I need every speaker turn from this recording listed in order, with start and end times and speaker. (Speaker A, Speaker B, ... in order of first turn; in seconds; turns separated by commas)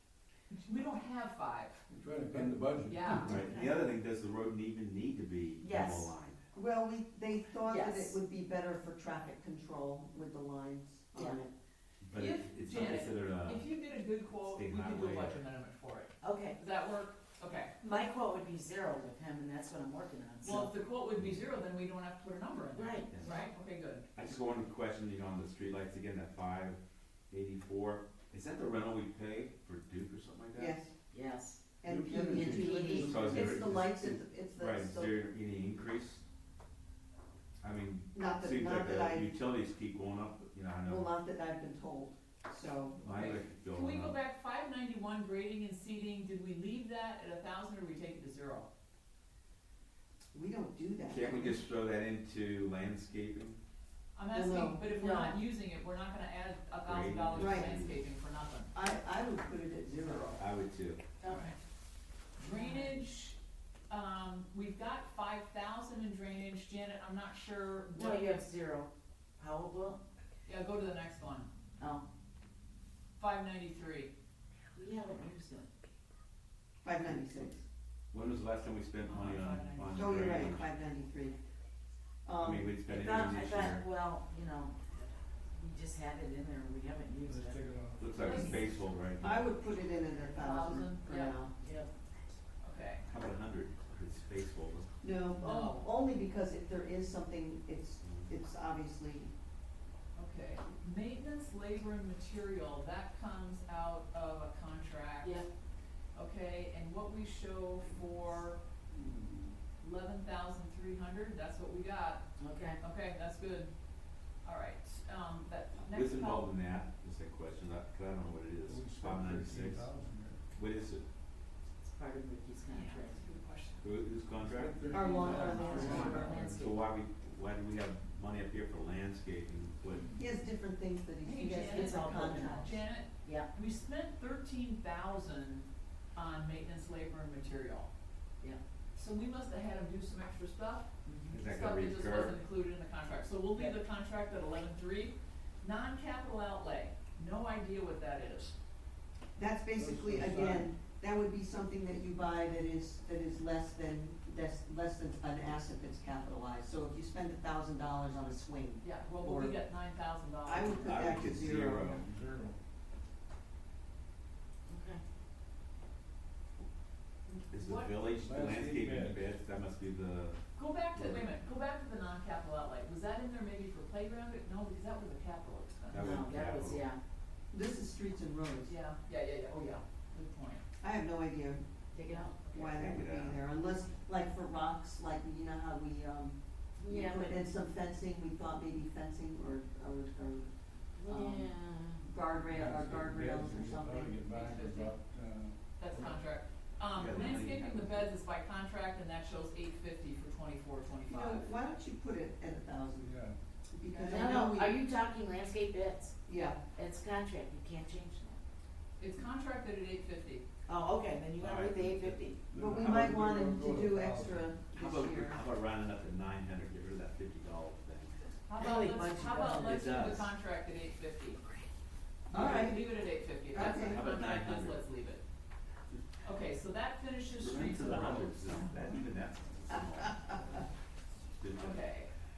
Speaker A: 0.5-1.8, Speaker B: 1.9-3.4, Speaker A: 2.9-3.4, Speaker C: 3.2-6.4, Speaker D: 3.4-3.8, Speaker D: 5.6-6.1, Speaker E: 6.5-11.5, Speaker D: 7.7-8.2, Speaker D: 11.1-11.4, Speaker C: 12.0-13.7, Speaker A: 12.1-17.7, Speaker C: 14.4-15.4, Speaker D: 16.2-16.6, Speaker D: 17.8-20.7, Speaker A: 20.4-24.1, Speaker D: 22.8-23.4, Speaker C: 23.1-23.4, Speaker C: 24.1-26.8, Speaker C: 27.3-30.8, Speaker E: 30.6-30.9, Speaker D: 31.1-31.6, Speaker E: 31.8-35.2, Speaker B: 31.8-33.9, Speaker D: 32.3-33.3, Speaker C: 32.9-36.2, Speaker C: 37.6-41.1, Speaker E: 38.1-39.3, Speaker E: 40.9-43.1, Speaker C: 43.0-44.2, Speaker A: 43.1-48.7, Speaker E: 50.3-51.6, Speaker C: 51.1-53.6, Speaker A: 54.1-58.8, Speaker E: 54.3-54.8, Speaker D: 54.9-55.4, Speaker C: 56.8-58.0, Speaker E: 57.4-57.7, Speaker E: 58.7-60.4, Speaker A: 60.0-60.3, Speaker C: 60.4-61.1, Speaker D: 61.2-61.5, Speaker A: 61.3-61.5, Speaker A: 62.4-63.4, Speaker D: 62.5-63.0, Speaker A: 63.9-68.4, Speaker D: 67.9-70.0, Speaker A: 70.5-71.5, Speaker D: 71.8-72.0, Speaker A: 73.2-74.1, Speaker D: 74.8-75.7, Speaker E: 76.8-77.6, Speaker C: 78.1-80.7, Speaker A: 79.1-80.3, Speaker E: 80.0-81.4, Speaker E: 82.2-82.7, Speaker C: 82.4-83.8, Speaker D: 82.9-84.8, Speaker D: 85.5-87.6, Speaker B: 87.3-88.5, Speaker C: 88.0-89.5, Speaker A: 88.2-88.7, Speaker E: 89.2-91.5, Speaker A: 90.4-91.4, Speaker D: 91.6-91.9, Speaker A: 92.6-93.0, Speaker C: 93.1-94.9, Speaker E: 95.0-99.3, Speaker A: 95.4-95.8, Speaker C: 98.0-98.3, Speaker A: 100.2-105.4, Speaker D: 105.2-105.5, Speaker A: 106.1-108.6, Speaker B: 108.9-109.6, Speaker A: 109.8-112.2, Speaker D: 112.4-112.8, Speaker A: 112.8-113.7, Speaker A: 114.4-116.5, Speaker C: 115.9-119.9, Speaker B: 118.7-120.4, Speaker C: 120.5-121.0, Speaker D: 121.8-123.2, Speaker A: 122.7-123.9, Speaker C: 123.8-125.7, Speaker B: 124.4-126.7, Speaker E: 124.9-126.4, Speaker A: 125.3-126.1, Speaker D: 125.5-126.9, Speaker C: 126.5-130.1, Speaker E: 130.2-132.8, Speaker A: 131.2-137.9, Speaker D: 131.6-132.7, Speaker A: 138.9-148.6, Speaker D: 141.1-141.4, Speaker C: 141.3-142.4, Speaker E: 149.4-159.5, Speaker B: 149.7-150.7, Speaker A: 158.8-161.2, Speaker E: 160.4-162.0, Speaker C: 160.8-162.1, Speaker B: 161.3-162.6, Speaker D: 164.7-165.0, Speaker A: 167.3-167.9, Speaker C: 167.5-170.4, Speaker B: 168.2-169.3, Speaker A: 170.6-176.2, Speaker C: 170.9-171.3, Speaker C: 175.9-176.9, Speaker D: 175.9-177.0, Speaker E: 177.5-178.7, Speaker A: 178.7-180.6, Speaker E: 180.8-181.6, Speaker D: 181.9-182.3, Speaker E: 182.3-190.5, Speaker A: 182.4-182.9, Speaker C: 182.8-183.4, Speaker D: 186.8-187.4, Speaker D: 191.0-192.1, Speaker E: 191.1-191.5, Speaker E: 192.0-194.2, Speaker B: 192.4-196.1, Speaker A: 194.3-195.0, Speaker A: 195.8-201.5, Speaker C: 196.9-198.1, Speaker E: 201.1-203.1, Speaker B: 203.0-203.4, Speaker E: 203.7-204.8, Speaker D: 204.0-206.2, Speaker E: 206.3-206.6, Speaker D: 206.7-208.4, Speaker A: 209.0-210.4, Speaker D: 210.7-212.4, Speaker C: 211.4-212.3, Speaker B: 212.5-214.6, Speaker E: 212.6-215.4, Speaker C: 214.8-218.3, Speaker A: 218.5-221.4, Speaker D: 218.6-219.7, Speaker C: 219.6-220.3, Speaker E: 222.3-222.9, Speaker A: 222.3-225.2, Speaker C: 222.4-222.6, Speaker E: 223.5-224.0, Speaker C: 223.6-224.8, Speaker A: 226.2-229.0, Speaker C: 227.4-230.3, Speaker E: 229.7-230.4, Speaker C: 231.3-231.8, Speaker A: 231.6-232.1